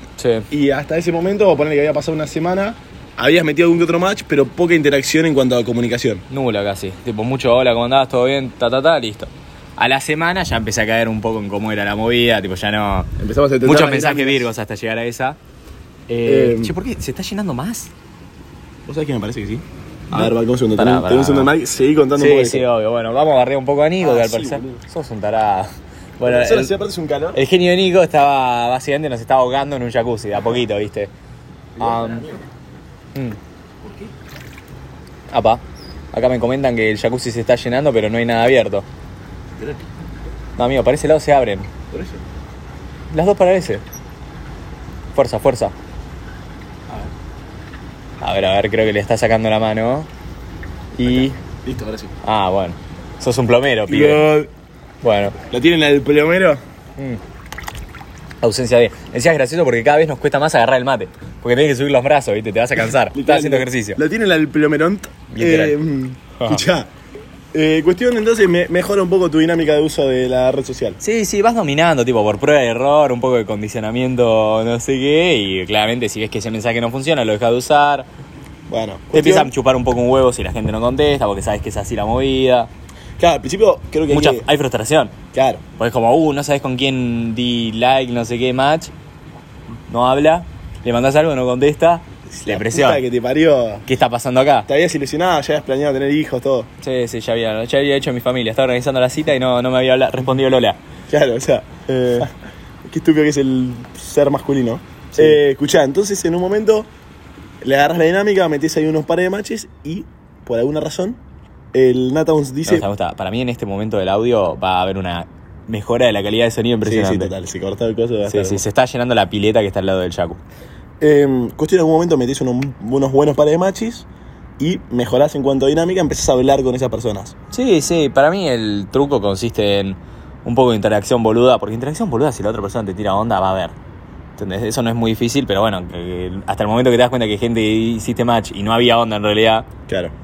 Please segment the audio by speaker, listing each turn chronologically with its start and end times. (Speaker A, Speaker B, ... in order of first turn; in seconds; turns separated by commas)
Speaker A: 0.2-0.5, Speaker B: 0.5-6.2, Speaker A: 6.3-13.1, Speaker B: 13.2-14.5, Speaker A: 13.6-15.4, Speaker A: 16.1-17.9, Speaker B: 16.2-16.8, Speaker B: 18.9-22.6, Speaker A: 20.1-21.5, Speaker A: 22.1-26.7, Speaker B: 24.0-24.8, Speaker B: 26.2-27.4, Speaker A: 27.3-31.1, Speaker B: 31.8-32.4, Speaker A: 31.8-32.3, Speaker A: 35.3-35.6, Speaker A: 36.1-38.9, Speaker A: 40.6-41.7, Speaker B: 41.9-42.2, Speaker A: 43.1-43.8, Speaker A: 45.1-45.8, Speaker A: 48.2-50.1, Speaker A: 51.0-51.4, Speaker B: 51.0-52.1, Speaker A: 52.2-54.2, Speaker B: 53.9-54.5, Speaker A: 55.0-55.4, Speaker B: 55.5-56.6, Speaker A: 58.4-64.0, Speaker B: 63.1-66.9, Speaker A: 65.3-65.8, Speaker A: 66.4-66.6, Speaker B: 67.5-71.0, Speaker A: 71.0-78.1, Speaker B: 78.7-79.5, Speaker A: 79.1-82.7, Speaker B: 83.2-84.5, Speaker A: 84.1-85.1, Speaker B: 85.3-85.6, Speaker A: 85.8-88.9, Speaker A: 89.9-93.0, Speaker B: 92.3-93.9, Speaker A: 93.9-94.7, Speaker B: 94.7-96.7, Speaker A: 96.8-100.8, Speaker B: 101.1-102.3, Speaker B: 102.9-106.9, Speaker A: 105.1-105.4, Speaker B: 107.6-111.2, Speaker B: 111.7-112.8, Speaker A: 112.7-117.3, Speaker B: 116.8-118.6, Speaker A: 118.2-120.4, Speaker B: 121.0-124.1, Speaker B: 124.6-127.3, Speaker A: 127.5-133.8, Speaker A: 134.4-139.7, Speaker B: 139.9-140.1